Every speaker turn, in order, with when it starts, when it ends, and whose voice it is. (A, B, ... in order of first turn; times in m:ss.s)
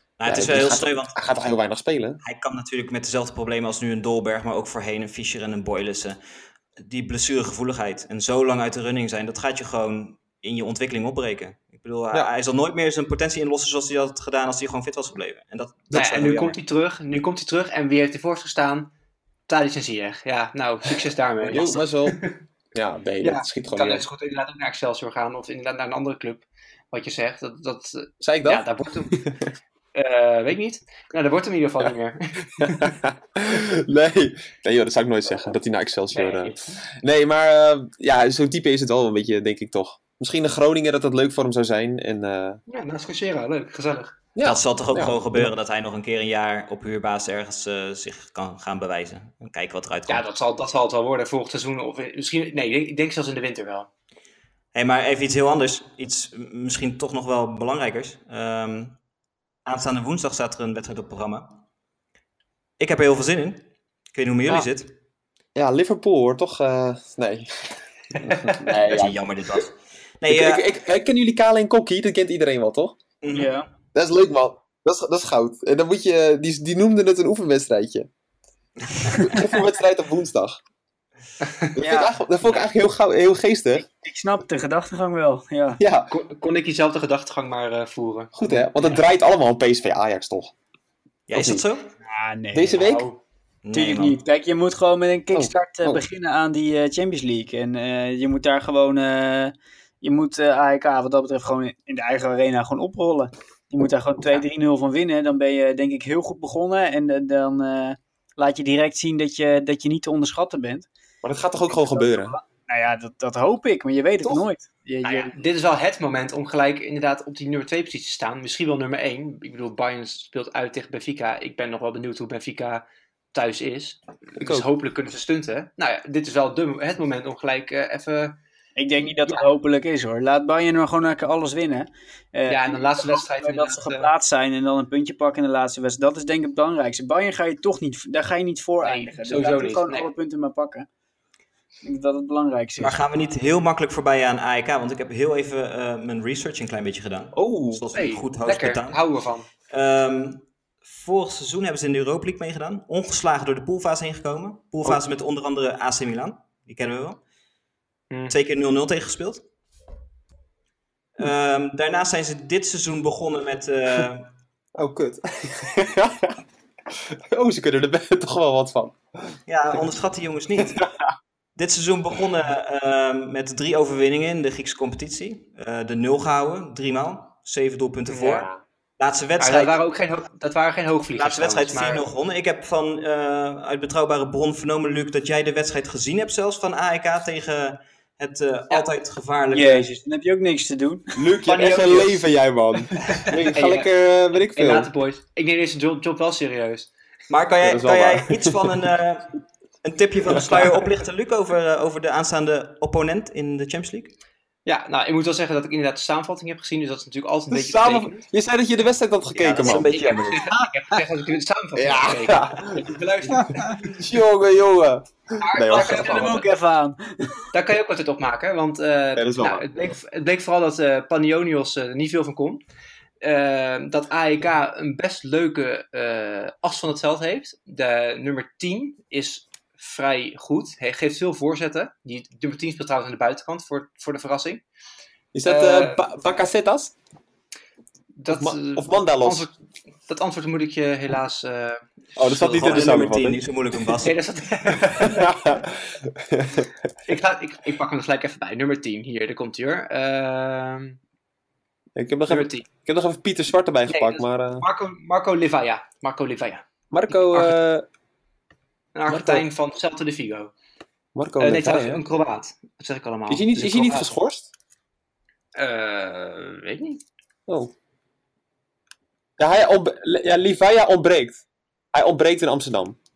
0:00.2-0:01.1 A
0:00.2-0:02.2 B
0:02.2-0:06.2 A
0:06.8-0:16.6 A
0:15.9-0:18.9 C
0:19.5-0:22.4 C
0:21.4-0:22.2 B
0:22.7-0:24.0 B
0:23.2-0:29.2 C
0:28.2-0:29.4 B
0:29.9-0:33.0 C
0:32.6-0:42.6 B
0:36.1-0:36.8 C
0:42.7-0:44.2 C
0:44.3-0:45.5 B
0:44.4-0:50.2 A
0:50.1-0:53.9 C
0:54.7-0:59.0 A
0:59.6-1:01.5 A
1:02.8-1:03.6 A
1:04.1-1:04.9 A
1:05.6-1:09.6 B
1:08.2-1:08.5 C
1:08.7-1:10.6 A
1:10.3-1:13.0 B
1:13.2-1:13.5 A
1:13.3-1:13.7 D
1:13.9-1:18.1 B
1:19.1-1:20.6 B
1:21.4-1:21.7 C
1:21.7-1:23.8 B
1:21.8-1:22.2 D
1:23.8-1:25.8 D
1:25.8-1:26.1 B
1:26.1-1:28.8 C
1:28.3-1:30.5 B
1:31.3-1:31.9 A
1:31.3-1:31.6 B
1:32.1-1:33.2 D
1:32.5-1:33.0 B
1:33.6-1:34.2 A
1:33.7-1:50.9 D
1:35.3-1:36.0 B
1:51.2-1:52.3 B
1:51.7-1:55.3 D
1:55.0-2:08.4 C
2:04.4-2:04.6 B
2:08.8-2:20.9 D
2:12.5-2:14.1 C
2:18.8-2:20.0 C
2:21.8-2:23.0 D
2:22.8-2:29.0 A
2:27.3-2:27.8 B
2:27.9-2:29.4 C
2:29.7-2:37.2 A
2:38.3-2:39.4 A
2:41.2-2:44.3 A
2:44.8-2:46.4 B
2:47.1-2:49.3 B
2:49.5-2:50.8 A
2:51.6-2:58.5 A
2:58.1-2:58.6 C
2:59.0-2:59.8 A
2:59.4-3:02.0 C
3:01.1-3:09.8 A
3:09.5-3:11.1 D
3:11.2-3:14.9 B
3:11.4-3:12.2 C
3:13.1-3:13.9 C
3:14.6-3:16.9 C
3:17.3-3:24.1 A
3:17.6-3:18.8 B
3:20.4-3:20.8 C
3:24.6-3:28.2 C
3:27.5-3:30.0 B
3:29.4-3:30.5 A
3:29.5-3:34.0 C
3:31.8-3:32.9 B
3:33.9-3:36.4 B
3:35.4-3:36.5 C
3:35.7-3:37.4 D
3:37.5-3:42.6 C
3:39.2-3:39.6 B
3:43.2-3:54.6 C
3:55.3-3:56.9 B
3:55.4-3:56.0 C
3:58.2-3:59.5 C
3:58.3-3:59.5 B
4:00.1-4:02.8 C
4:02.2-4:03.4 B
4:02.4-4:04.2 A
4:04.0-4:05.3 C
4:05.0-4:06.7 B
4:07.0-4:11.0 C
4:11.9-4:14.6 B
4:12.3-4:12.6 C
4:13.9-4:17.6 C
4:16.9-4:17.8 B
4:18.9-4:20.5 C
4:19.1-4:19.4 B
4:21.1-4:22.0 B
4:21.4-4:24.1 C
4:23.3-4:24.5 B
4:25.6-4:27.0 C
4:27.5-4:27.7 B
4:29.4-4:31.4 B
4:31.9-4:33.0 B